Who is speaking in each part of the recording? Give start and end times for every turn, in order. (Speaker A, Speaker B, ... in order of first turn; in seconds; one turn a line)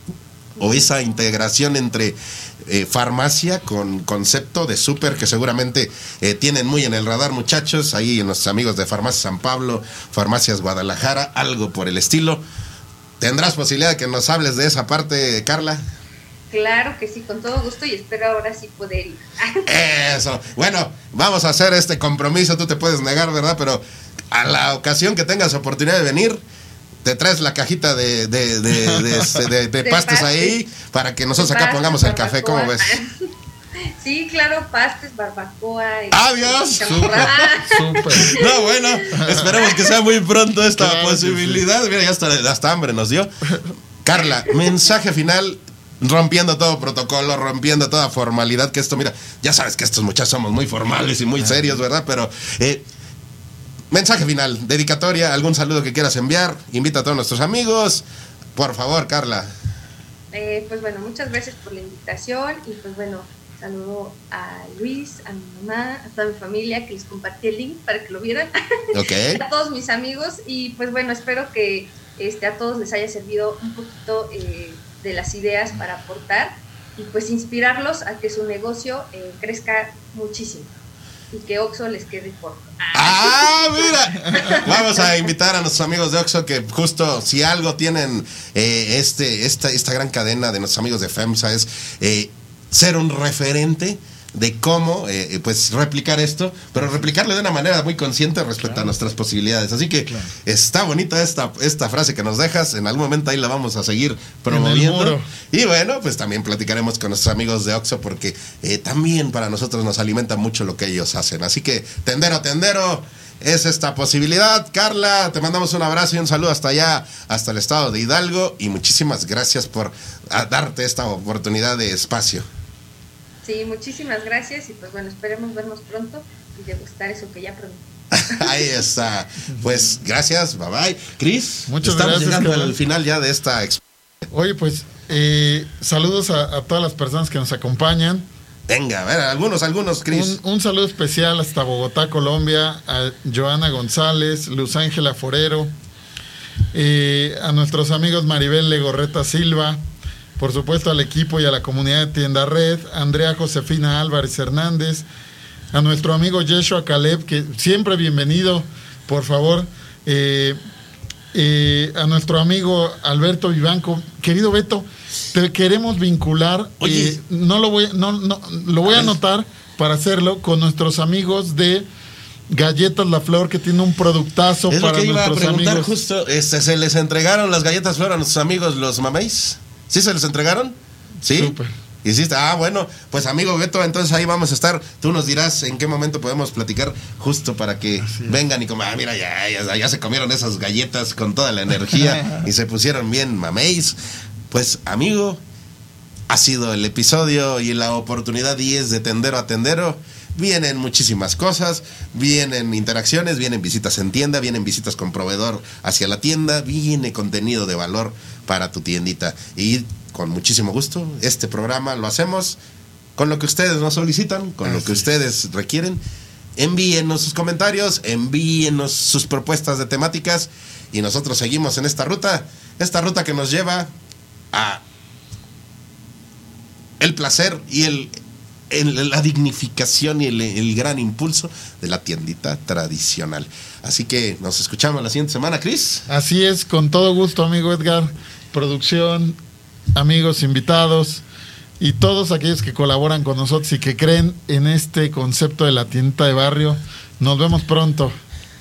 Speaker A: 0.6-12.4
Speaker A: 13.2-15.8
Speaker B: 16.5-19.7
Speaker A: 19.6-26.4
Speaker A: 27.0-33.0
Speaker C: 28.9-29.4
Speaker B: 29.8-30.6
Speaker B: 31.4-33.1
Speaker B: 34.0-39.1
Speaker A: 36.1-37.5
Speaker C: 37.6-38.4
Speaker A: 38.1-43.3
Speaker C: 39.1-39.7
Speaker B: 39.6-39.9
Speaker C: 40.8-41.6
Speaker A: 44.0-52.8
Speaker A: 53.9-58.0
Speaker A: 58.5-59.5
Speaker B: 60.3-80.7
Speaker A: 68.9-69.4
Speaker B: 81.3-85.1
Speaker A: 82.9-122.5
Speaker C: 104.5-105.3
Speaker B: 123.4-128.4
Speaker A: 128.1-133.8
Speaker C: 131.7-132.8
Speaker C: 134.3-138.3
Speaker A: 138.7-140.4
Speaker C: 140.1-145.7
Speaker C: 146.7-149.8
Speaker C: 150.4-155.1
Speaker C: 155.7-160.6
Speaker C: 161.3-171.9
Speaker A: 166.8-167.2
Speaker A: 168.8-169.1
Speaker C: 172.5-175.9
Speaker A: 174.7-194.0
Speaker C: 181.3-181.7
Speaker C: 188.0-188.3
Speaker A: 194.5-195.4
Speaker A: 196.3-212.6
Speaker A: 213.2-216.0
Speaker C: 214.7-214.9
Speaker A: 216.6-223.9
Speaker A: 224.5-224.8
Speaker A: 227.0-228.1
Speaker A: 228.7-236.1
Speaker C: 236.1-239.4
Speaker C: 239.9-241.2
Speaker C: 241.8-248.2